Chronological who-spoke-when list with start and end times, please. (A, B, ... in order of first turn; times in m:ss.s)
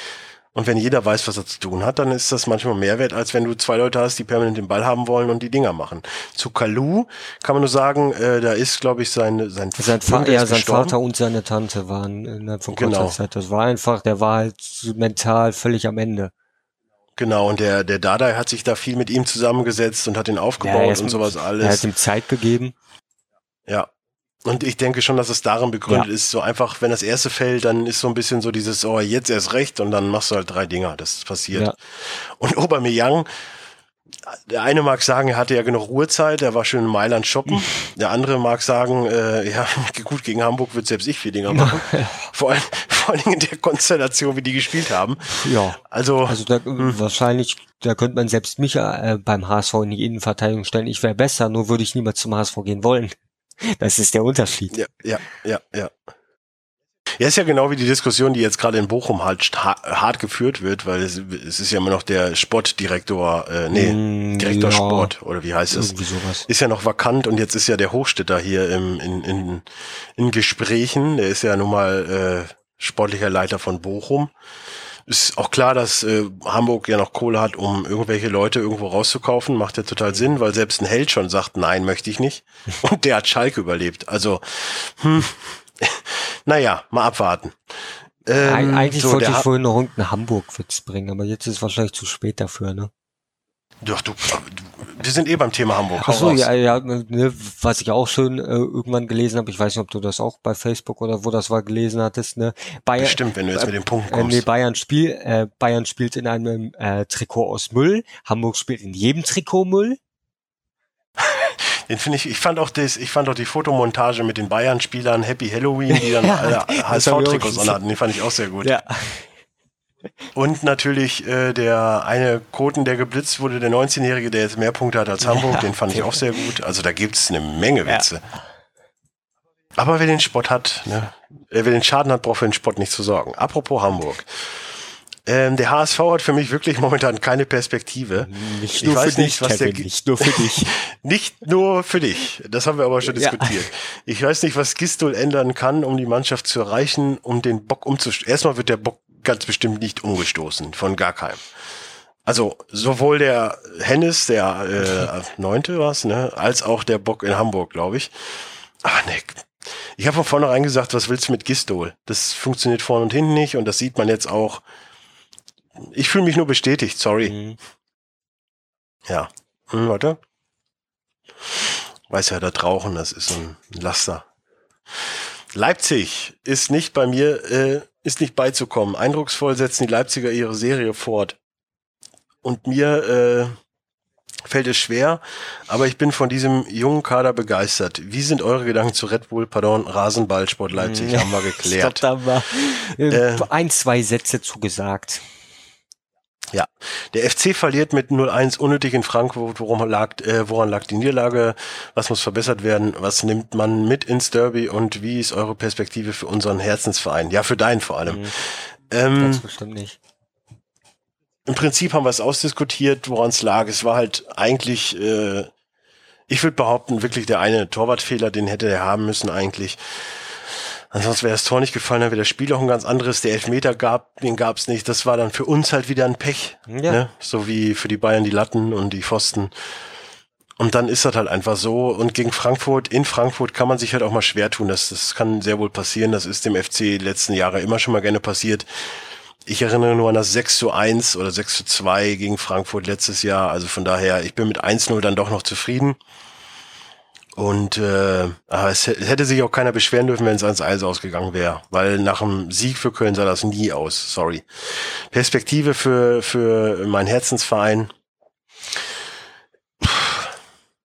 0:00.5-0:11.0 A
0:09.8-0:16.3 B
0:12.7-0:13.2 A
0:17.2-0:21.8 A
0:20.6-0:22.7 B
0:24.4-0:33.3 A
0:34.2-0:47.0 A
0:41.5-0:42.3 B
0:45.3-0:54.7 B
0:54.7-0:55.9 A
0:57.2-1:06.0 A
1:03.7-1:05.1 B
1:05.7-1:06.4 B
1:06.5-1:14.3 A
1:15.0-1:29.5 A
1:28.4-1:32.9 B
1:33.8-1:36.5 A
1:36.0-1:50.0 B
1:43.0-1:44.4 A
1:51.2-1:58.8 A
1:55.9-1:57.8 B
1:58.6-1:59.3 B
2:00.3-2:08.2 A
2:05.2-2:06.5 B
2:09.8-2:14.6 A
2:15.2-2:31.5 A
2:18.2-2:20.7 B
2:23.0-2:23.7 B
2:32.2-2:44.6 A
2:45.8-2:47.4 A
2:47.2-2:47.6 B
2:49.1-2:50.2 A
2:51.5-2:54.3 A
2:54.9-3:01.4 A
3:02.4-3:03.5 A
3:04.4-3:12.0 A
3:10.7-3:15.2 B
3:13.1-3:13.5 A
3:16.5-3:29.4 A
3:28.0-3:28.4 B
3:29.2-3:30.0 B
3:31.4-3:35.5 A
3:36.3-3:49.5 A
3:46.7-3:47.0 B
3:50.6-4:06.0 A
4:07.3-4:17.9 A
4:19.8-4:20.4 A